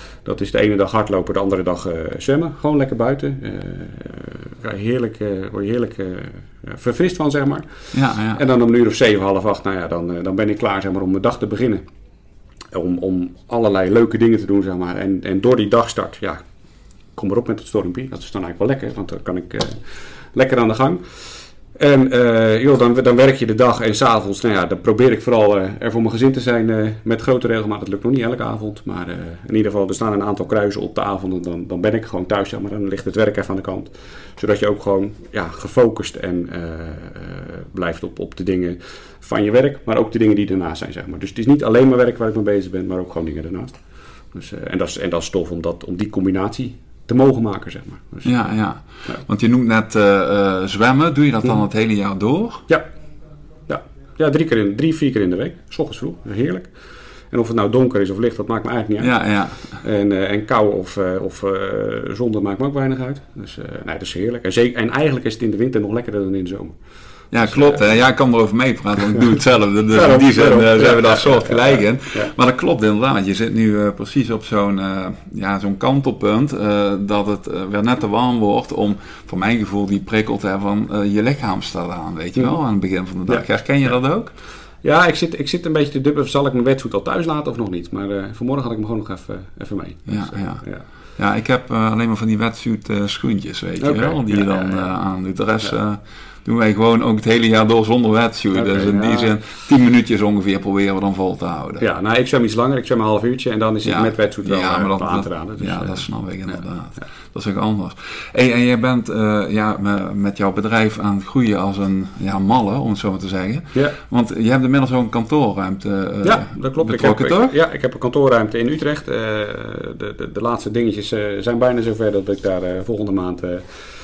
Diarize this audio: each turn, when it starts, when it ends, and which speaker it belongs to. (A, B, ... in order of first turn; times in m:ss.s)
0:00.2-0:11.8 A
0:07.9-0:08.4 B
0:12.7-0:16.4 A
0:17.2-0:21.1 A
0:21.7-0:43.8 A
0:44.3-0:48.5 A
0:48.2-0:52.6 B
0:53.7-0:56.7 A
0:57.3-1:06.7 A
0:59.0-0:59.8 B
1:07.3-1:24.3 B
1:07.4-1:07.8 A
1:09.9-1:12.3 A
1:23.3-1:23.9 A
1:24.8-1:30.8 A
1:30.1-1:30.6 B
1:31.2-1:41.8 B
1:33.8-1:34.9 A
1:38.5-1:39.3 A
1:41.8-1:46.6 A
1:43.8-1:57.5 B
1:56.2-2:03.6 A